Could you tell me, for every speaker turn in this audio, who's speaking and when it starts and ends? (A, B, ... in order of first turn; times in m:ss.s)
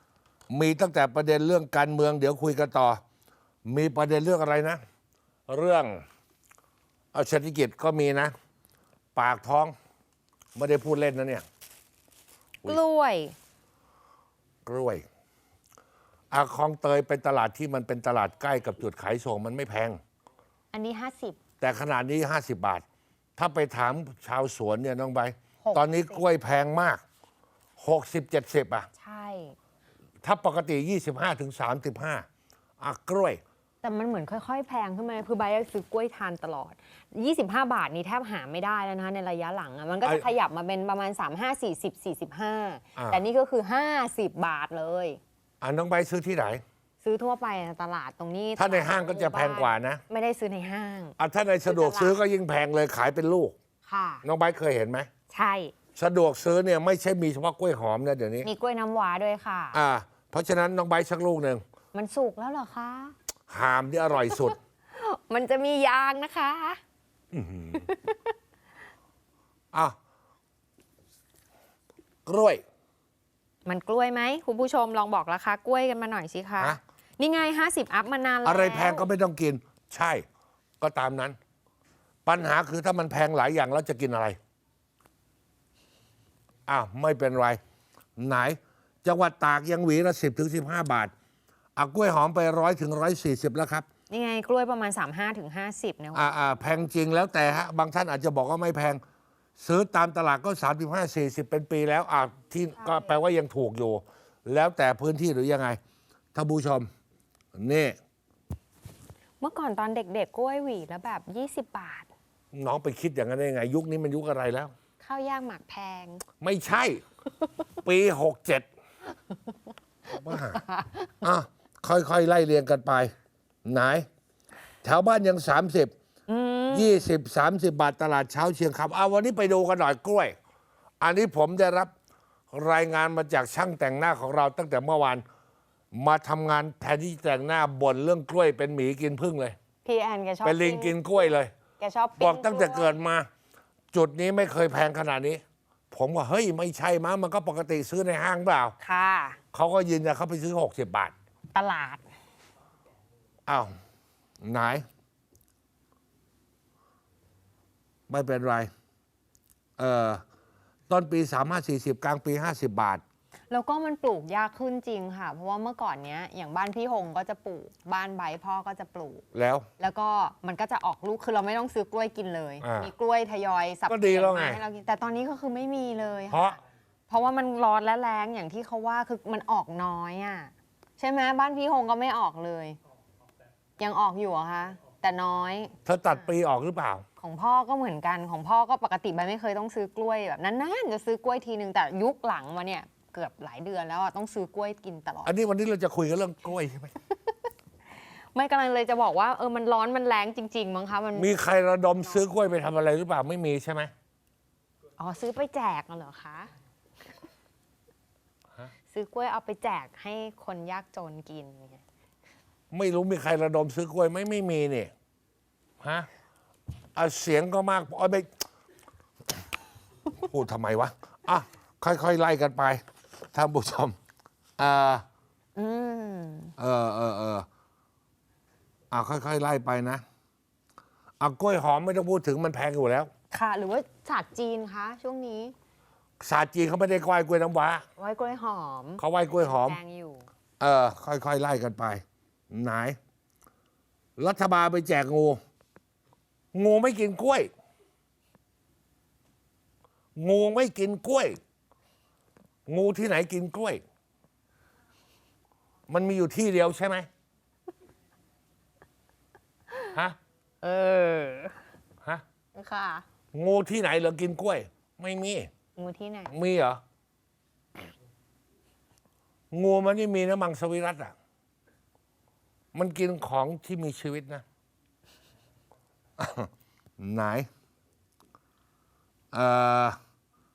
0:00.5-0:03.0 A
0:03.6-0:04.8 A
0:05.5-0:06.0 A
0:07.1-0:08.3 A
0:09.1-0:09.8 A
0:10.6-0:11.4 A
0:12.6-0:13.3 B
0:14.6-0:15.0 A
0:16.3-0:20.0 A
0:20.7-0:21.4 B
0:21.6-0:22.8 A
0:23.4-0:27.0 A
0:25.6-0:26.2 B
0:27.8-0:28.9 A
0:29.0-0:29.6 B
0:30.2-0:32.3 A
0:32.8-0:33.4 A
0:33.8-0:45.2 B
0:43.0-0:43.2 A
0:45.6-0:46.6 A
0:47.0-0:52.2 B
0:48.6-0:50.0 A
0:51.2-0:53.6 A
0:53.8-0:54.2 B
0:54.2-0:55.1 A
0:55.3-0:55.7 B
0:56.0-0:58.5 A
0:58.4-0:59.8 B
0:59.7-1:01.6 A
1:01.9-1:03.2 B
1:03.5-1:04.6 A
1:04.2-1:06.8 B
1:07.3-1:07.8 A
1:07.8-1:08.2 B
1:12.2-1:12.6 A
1:13.6-1:19.1 B
1:18.4-1:20.2 A
1:20.8-1:21.4 A
1:22.2-1:24.4 A
1:26.7-1:27.6 A
1:28.2-1:31.1 A
1:31.8-1:33.8 A
1:34.1-1:36.3 B
1:36.1-1:39.0 A
1:39.6-1:45.8 A
1:42.8-1:43.2 B
1:46.3-1:46.9 A
1:47.5-1:48.0 A
1:49.4-1:52.1 B
1:52.5-1:54.7 A
1:55.0-1:56.2 B
1:56.4-1:57.0 A
1:57.8-1:58.7 A
2:00.1-2:00.6 A
2:00.3-2:01.1 B
2:01.2-2:03.1 A
2:03.6-2:04.1 A
2:04.8-2:05.9 A
2:06.3-2:07.1 B
2:06.7-2:10.3 A
2:11.0-2:11.9 A
2:12.5-2:15.2 A
2:15.9-2:19.6 A
2:19.8-2:21.2 B
2:20.4-2:21.5 A
2:21.8-2:23.0 B
2:22.2-2:23.3 A
2:23.9-2:28.8 A
2:28.8-2:29.4 B
2:29.5-2:31.1 A
2:31.5-2:32.0 B
2:33.5-2:33.7 A
2:34.4-2:34.8 A
2:38.1-2:38.7 A
2:39.8-2:40.2 A
2:40.9-2:43.0 A
2:43.5-2:49.2 B
2:49.3-2:49.7 A
2:49.8-2:56.6 B
2:52.6-2:52.9 A
2:53.9-2:54.6 A
2:56.3-2:56.6 A
2:57.1-3:02.8 B
3:03.8-3:06.3 B
3:05.8-3:07.0 A
3:07.2-3:15.3 B
3:15.2-3:16.9 A
3:18.3-3:21.3 B
3:21.1-3:23.9 A
3:25.0-3:26.5 B
3:28.9-3:31.8 B
3:32.7-3:34.9 A
3:35.8-3:36.1 A
3:37.0-3:38.3 A
3:40.2-3:42.8 A
3:43.3-3:44.0 A
3:44.6-3:45.0 A
3:45.6-3:46.5 B
3:46.6-3:47.4 A
3:48.9-3:50.0 A
3:51.2-3:53.1 A
3:53.3-3:55.5 B
3:56.2-3:57.8 A
3:58.0-4:00.3 B
3:59.0-3:59.8 A
4:00.6-4:03.0 A
4:04.2-4:05.4 A
4:06.5-4:07.5 A
4:10.2-4:11.4 A
4:12.7-4:13.8 A
4:15.9-4:17.1 A
4:20.6-4:21.6 B
4:22.6-4:23.0 B
4:23.3-4:25.5 A
4:25.8-4:26.3 B
4:26.3-4:26.8 A
4:29.5-4:31.1 A
4:32.7-4:34.4 A
4:36.2-4:37.5 A
4:39.3-4:40.0 A